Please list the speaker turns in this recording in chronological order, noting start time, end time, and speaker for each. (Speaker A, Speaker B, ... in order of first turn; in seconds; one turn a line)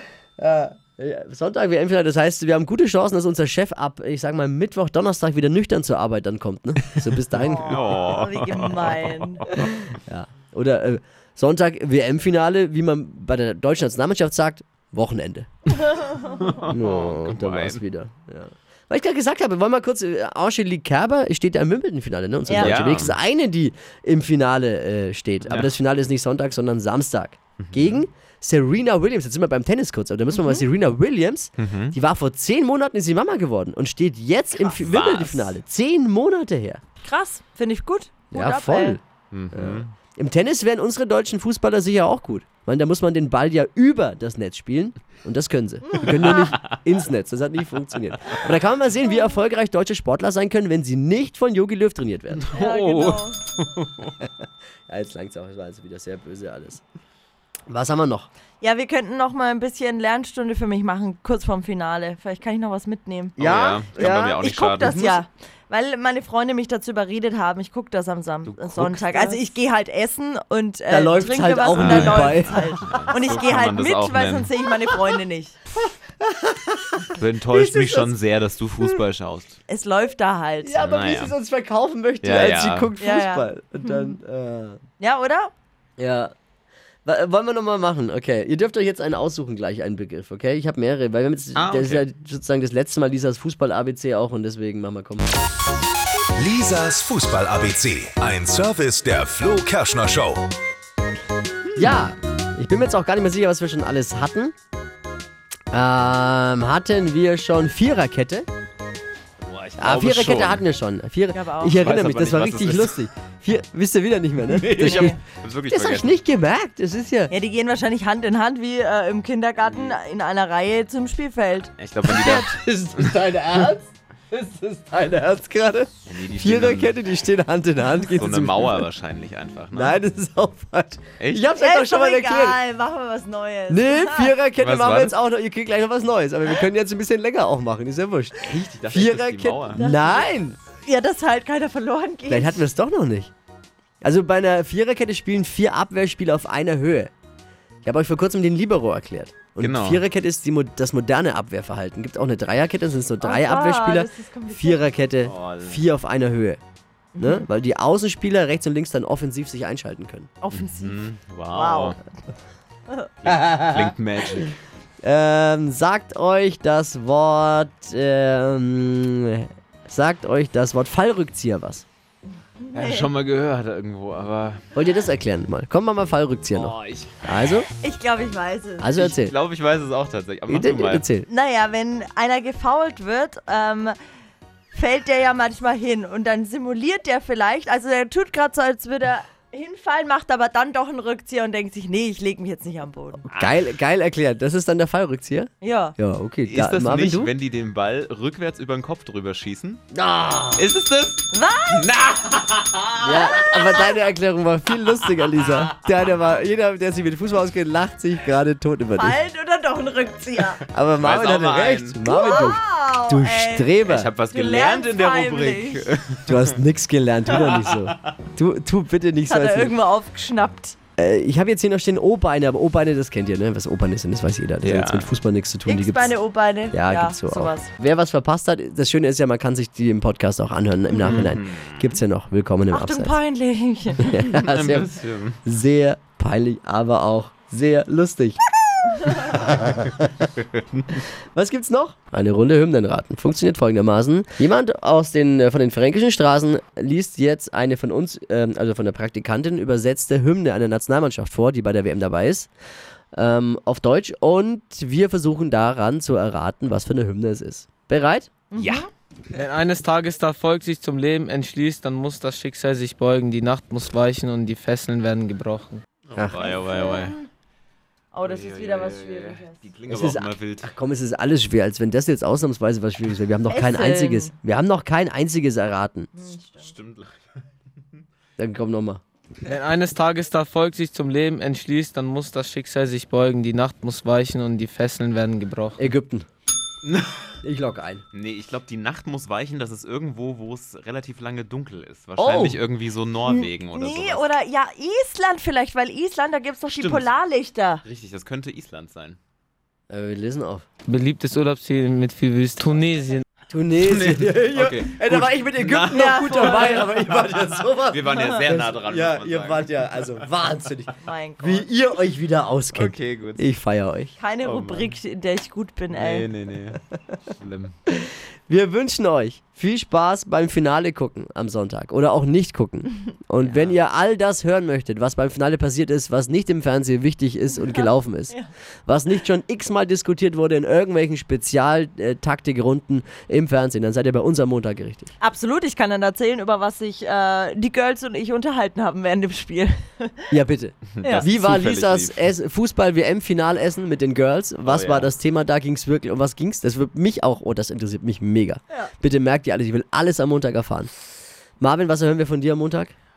Speaker A: 0.4-7.8
Speaker B: 7.4-9.4
Speaker C: 7.5-9.4
Speaker A: 9.6-15.5
Speaker B: 15.8-16.4
Speaker C: 16.3-17.8
Speaker A: 16.7-36.8
Speaker B: 22.5-22.8
Speaker C: 22.6-23.2
Speaker C: 25.4-25.7
Speaker C: 27.6-28.0
Speaker B: 30.3-30.6
Speaker C: 31.6-31.9
Speaker C: 34.6-35.5
Speaker B: 37.0-39.0
Speaker A: 38.3-39.0
Speaker C: 39.3-39.9
Speaker A: 39.5-52.5
Speaker C: 52.4-54.1
Speaker B: 52.5-53.4
Speaker A: 54.9-56.8
Speaker A: 57.7-58.3
Speaker B: 58.6-63.4
Speaker C: 63.4-65.1
Speaker A: 63.4-65.2
Speaker B: 64.4-75.6
Speaker C: 68.5-69.0
Speaker A: 68.9-69.4
Speaker A: 70.9-72.9
Speaker C: 71.7-74.5
Speaker A: 75.8-78.1
Speaker C: 77.1-79.6
Speaker B: 79.7-80.8
Speaker A: 80.6-84.8
Speaker C: 80.8-81.3
Speaker C: 82.2-82.9
Speaker B: 83.0-84.2
Speaker B: 85.0-85.5
Speaker A: 86.0-86.3
Speaker A: 87.0-95.3
Speaker C: 91.5-92.1
Speaker D: 96.4-100.5
Speaker C: 101.8-102.0
Speaker A: 101.8-104.5
Speaker A: 105.7-108.5
Speaker C: 109.5-110.6
Speaker A: 109.8-115.2
Speaker B: 111.3-111.9
Speaker C: 111.7-113.0
Speaker C: 114.5-116.2
Speaker B: 114.7-115.2
Speaker A: 115.7-117.3
Speaker B: 117.3-122.3
Speaker C: 119.7-120.0
Speaker C: 121.8-123.1
Speaker A: 122.1-128.9
Speaker C: 126.1-126.9
Speaker C: 128.1-130.0
Speaker A: 129.7-132.6
Speaker C: 131.2-131.5
Speaker B: 131.5-134.4
Speaker A: 133.7-140.6
Speaker C: 134.6-135.2
Speaker C: 138.4-139.8
Speaker B: 139.8-142.6
Speaker A: 142.3-143.3
Speaker A: 144.0-147.1
Speaker A: 147.8-156.6
Speaker C: 149.6-150.0
Speaker B: 153.2-154.9
Speaker C: 155.2-155.8
Speaker B: 157.2-157.5
Speaker A: 157.2-160.3
Speaker B: 160.4-161.0
Speaker C: 160.5-162.0
Speaker B: 161.5-162.0
Speaker C: 163.2-164.5
Speaker A: 163.3-163.9
Speaker A: 165.0-171.9
Speaker B: 172.6-173.1
Speaker C: 172.7-174.6
Speaker A: 174.7-177.7
Speaker C: 176.5-177.2
Speaker B: 177.8-178.9
Speaker A: 178.8-179.3
Speaker C: 178.9-181.1
Speaker A: 180.5-181.3
Speaker B: 181.3-183.9
Speaker B: 184.7-193.2
Speaker A: 193.3-197.3
Speaker B: 195.6-195.9
Speaker C: 196.4-199.8
Speaker A: 199.9-200.6
Speaker C: 200.6-203.6
Speaker B: 201.3-201.9
Speaker A: 203.0-209.2
Speaker C: 205.3-205.6
Speaker B: 208.9-210.6
Speaker A: 210.7-214.1
Speaker C: 211.0-212.0
Speaker B: 212.1-215.9
Speaker C: 213.8-216.6
Speaker A: 216.3-219.8
Speaker C: 217.4-218.1
Speaker B: 219.2-220.8
Speaker A: 221.0-226.1
Speaker C: 224.6-225.1
Speaker B: 225.7-227.7
Speaker A: 226.7-233.1
Speaker C: 231.1-231.9
Speaker B: 232.7-234.3
Speaker A: 234.0-234.9
Speaker C: 234.3-235.4
Speaker A: 235.4-238.4
Speaker A: 239.1-240.1
Speaker C: 240.3-241.0
Speaker A: 241.3-252.5
Speaker A: 253.1-258.4
Speaker B: 258.5-258.9
Speaker C: 258.5-258.9
Speaker E: 259.3-265.8
Speaker C: 266.1-267.1
Speaker B: 266.3-267.3
Speaker B: 268.1-269.7
Speaker C: 268.2-270.7
Speaker A: 269.9-276.1
Speaker B: 273.5-274.3
Speaker B: 276.1-276.7
Speaker C: 276.6-277.4
Speaker A: 278.4-279.0
Speaker E: 279.4-285.9
Speaker A: 285.8-286.3
Speaker C: 286.8-287.3
Speaker A: 287.4-288.0
Speaker C: 288.1-294.3
Speaker A: 292.2-292.6
Speaker B: 293.2-297.8
Speaker C: 296.7-297.1
Speaker C: 297.9-299.2
Speaker A: 299.9-300.6
Speaker E: 300.9-303.2
Speaker A: 303.5-314.1
Speaker C: 303.8-310.0
Speaker B: 305.9-306.9
Speaker B: 308.1-308.4
Speaker B: 311.0-311.7
Speaker C: 312.7-313.4
Speaker B: 314.2-316.3
Speaker C: 314.4-314.9
Speaker C: 315.9-317.8
Speaker A: 318.0-335.1
Speaker C: 323.4-323.8
Speaker B: 327.5-328.5
Speaker B: 335.2-340.2
Speaker A: 340.3-350.9
Speaker C: 341.0-342.3
Speaker B: 341.0-341.3
Speaker C: 344.6-345.1
Speaker A: 351.6-352.9